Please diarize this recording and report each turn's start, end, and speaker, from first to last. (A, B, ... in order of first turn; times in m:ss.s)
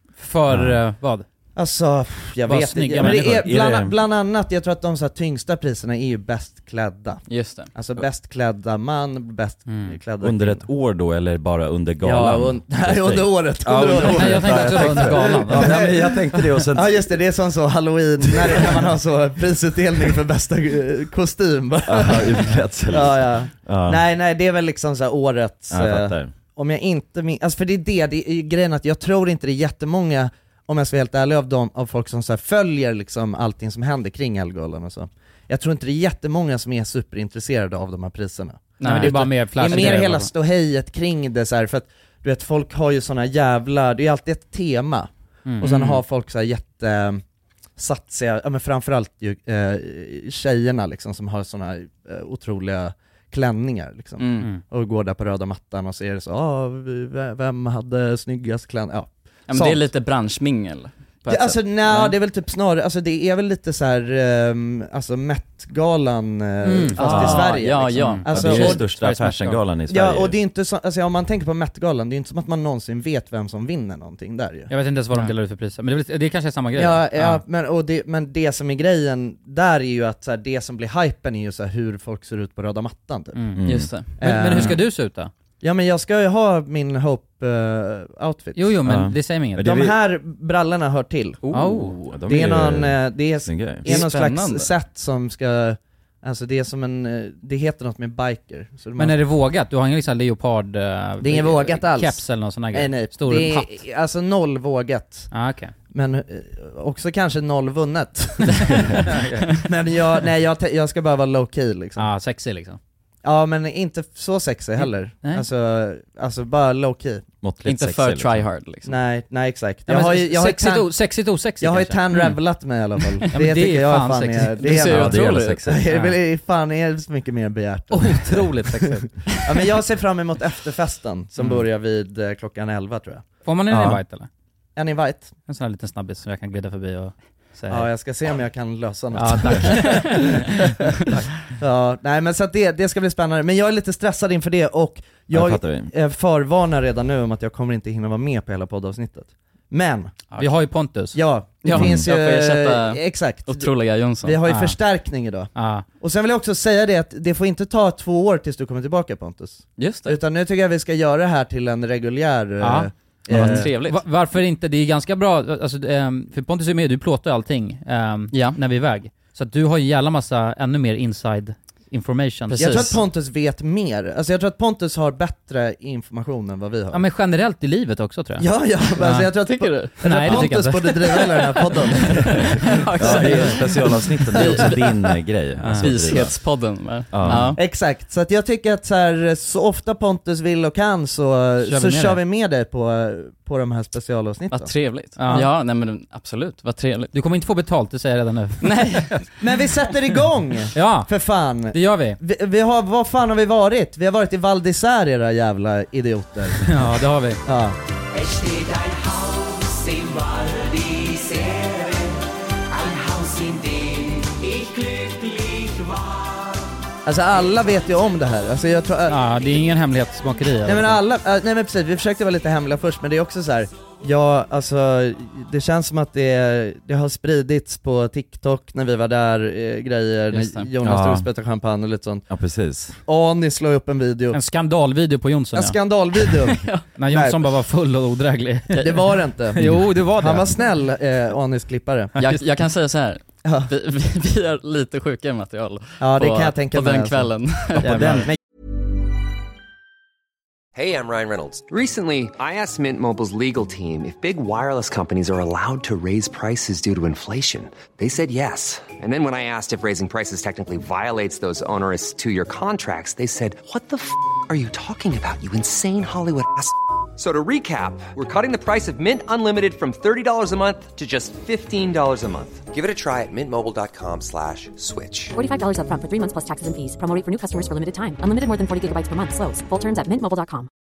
0:00.2-0:01.3 A
0:00.5-0:00.8 B
0:01.6-0:10.6 C
0:02.5-0:03.5 A
0:03.0-0:04.0 B
0:07.3-0:07.7 D
0:09.7-0:10.0 A
0:10.2-0:17.1 B
0:12.0-0:47.2 C
0:14.1-0:15.9 A
0:21.9-0:24.0 B
0:25.7-0:26.3 B
0:38.8-0:40.0 D
0:38.8-0:40.3 A
0:45.5-0:46.0 A
0:47.8-0:59.9 C
0:54.2-0:54.5 D
0:59.5-1:02.2 D
1:01.3-1:08.8 C
1:06.6-1:09.6 A
1:07.0-1:08.8 D
1:08.2-1:10.4 B
1:09.9-1:14.7 C
1:14.7-1:17.4 A
1:16.8-1:23.4 C
1:23.4-1:23.6 A
1:23.6-1:23.9 B
1:23.6-1:24.1 D
1:24.2-1:25.3 A
1:24.2-1:24.8 C
1:25.6-1:28.8 C
1:28.6-1:29.7 A
1:28.8-1:30.0 B
1:29.6-1:31.4 C
1:31.5-1:31.9 D
1:31.5-1:32.0 A
1:31.6-1:34.0 B
1:32.3-1:39.2 C
1:33.8-1:34.7 D
1:39.0-1:43.8 A
1:41.2-1:45.3 C
1:45.3-1:45.7 A
1:45.9-1:52.1 C
1:49.0-1:49.5 A
1:52.0-1:52.8 A
1:53.2-1:57.3 C
1:54.8-1:55.5 A
1:57.4-1:58.5 B
1:57.6-1:59.0 D
1:58.9-2:00.9 C
1:59.9-2:02.3 A
2:01.6-2:14.0 C
2:03.3-2:04.9 A
2:04.6-2:05.7 D
2:04.9-2:05.8 B
2:05.9-2:06.2 A
2:07.9-2:09.1 A
2:13.4-2:14.3 A
2:14.8-2:15.3 C
2:15.5-2:17.9 A
2:17.7-2:30.2 C
2:19.2-2:20.5 A
2:25.3-2:25.9 B
2:30.4-2:31.2 A
2:31.1-2:33.7 C
2:31.6-2:34.4 D
2:31.7-2:32.1 B
2:34.2-2:43.7 C
2:34.5-2:34.8 A
2:35.6-2:35.8 A
2:39.8-2:40.2 D
2:42.6-2:53.0 A
2:43.3-2:44.0 D
2:48.3-2:48.6 D
2:52.5-2:53.0 D
2:52.6-2:57.0 C
2:56.9-2:58.5 A
2:58.4-3:02.4 C
2:59.0-3:01.2 A
2:59.5-3:00.5 D
3:01.1-3:05.0 D
3:03.0-3:06.4 B
3:05.6-3:05.9 A
3:05.8-3:07.6 D
3:07.1-3:07.6 B
3:07.6-3:14.8 C
3:11.6-3:12.2 A
3:14.5-3:17.1 D
3:15.2-3:15.5 A
3:17.1-3:19.2 A
3:18.6-3:19.2 D
3:19.4-3:26.7 C
3:20.7-3:21.1 A
3:21.7-3:22.2 A
3:26.6-3:27.4 A
3:27.5-3:27.8 C
3:37.0-3:39.2 C
3:39.1-3:41.0 A
3:40.6-3:52.3 C
3:50.3-3:50.7 D
3:50.8-3:51.3 B
3:52.3-3:53.0 B
3:53.0-3:54.4 C
3:54.3-3:55.8 A
3:55.6-3:57.4 C
3:57.0-4:00.5 A
3:58.7-4:02.2 C
4:02.2-4:02.4 A
4:02.2-4:08.3 D
4:03.5-4:03.7 C
4:06.0-4:08.4 C
4:07.8-4:08.3 A
4:10.7-4:35.4 E
4:35.4-4:40.7 F